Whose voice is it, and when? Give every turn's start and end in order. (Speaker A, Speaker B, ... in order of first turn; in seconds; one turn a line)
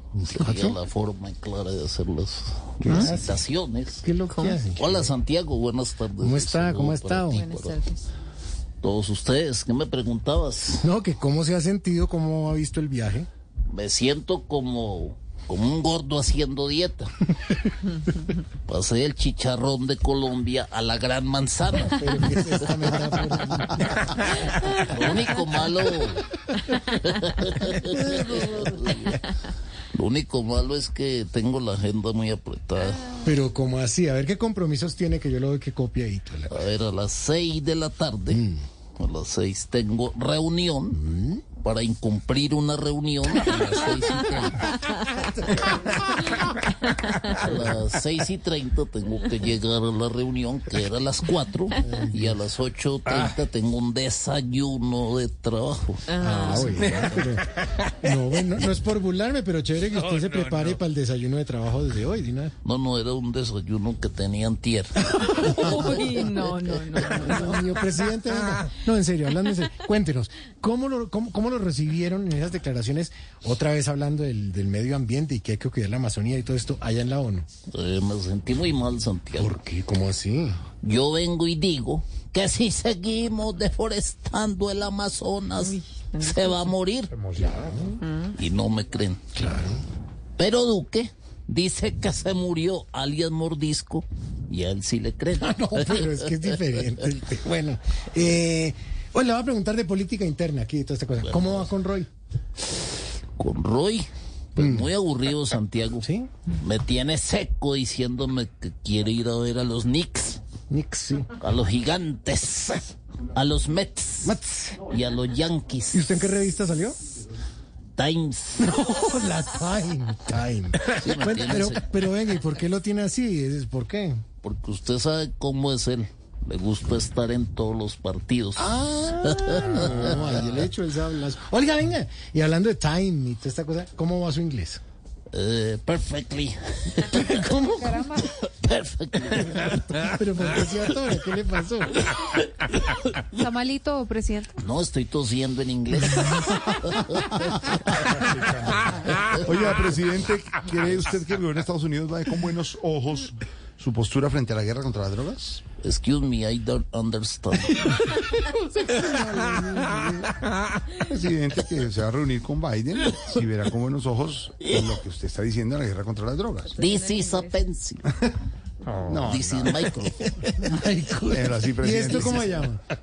Speaker A: 0.2-0.8
Speaker B: 0.2-4.1
Speaker A: 2.8-3.4
Speaker A: 4.0-5.1
Speaker C: 4.3-4.6
Speaker B: 4.6-7.9
Speaker A: 6.2-7.5
Speaker C: 7.3-8.0
Speaker B: 8.8-10.8
Speaker A: 10.8-13.3
Speaker B: 13.7-17.1
Speaker B: 18.7-29.3
Speaker A: 21.9-25.5
Speaker A: 27.6-29.2
Speaker B: 29.9-33.2
Speaker A: 33.1-36.6
Speaker B: 36.5-41.0
Speaker A: 38.3-38.6
Speaker A: 40.9-41.4
Speaker B: 41.6-44.8
Speaker A: 45.2-45.8
Speaker B: 47.1-57.2
Speaker A: 51.8-52.4
Speaker A: 56.2-62.5
Speaker C: 56.2-56.7
Speaker B: 62.6-65.9
Speaker A: 65.1-77.5
Speaker C: 65.3-67.5
Speaker B: 77.7-79.6
Speaker A: 79.3-80.6
Speaker B: 80.8-87.2
Speaker C: 85.6-86.7
Speaker D: 87.2-87.9
Speaker A: 87.5-88.0
Speaker C: 88.0-88.3
Speaker B: 88.3-89.2
Speaker A: 89.3-89.8
Speaker B: 90.4-96.7
Speaker A: 95.4-102.1
Speaker B: 101.2-101.7
Speaker B: 103.4-110.4
Speaker A: 104.6-104.9
Speaker A: 106.0-106.3
Speaker A: 110.7-111.3
Speaker B: 111.4-116.2
Speaker A: 114.2-114.8
Speaker A: 115.9-117.0
Speaker B: 118.0-118.9
Speaker A: 118.6-124.2
Speaker B: 120.8-122.0
Speaker B: 124.4-130.4
Speaker A: 128.6-134.8
Speaker B: 135.3-140.1
Speaker A: 137.2-137.6
Speaker C: 137.6-138.3
Speaker A: 139.7-142.1
Speaker C: 143.3-144.5
Speaker B: 144.6-148.2
Speaker D: 148.2-148.7
Speaker B: 149.1-149.3
Speaker D: 149.3-155.6
Speaker B: 155.8-158.2
Speaker A: 158.4-160.3
Speaker D: 160.9-166.8
Speaker B: 166.8-168.1
Speaker C: 166.8-167.5
Speaker D: 169.0-169.8
Speaker B: 169.2-170.4
Speaker A: 170.2-172.8
Speaker D: 171.2-172.7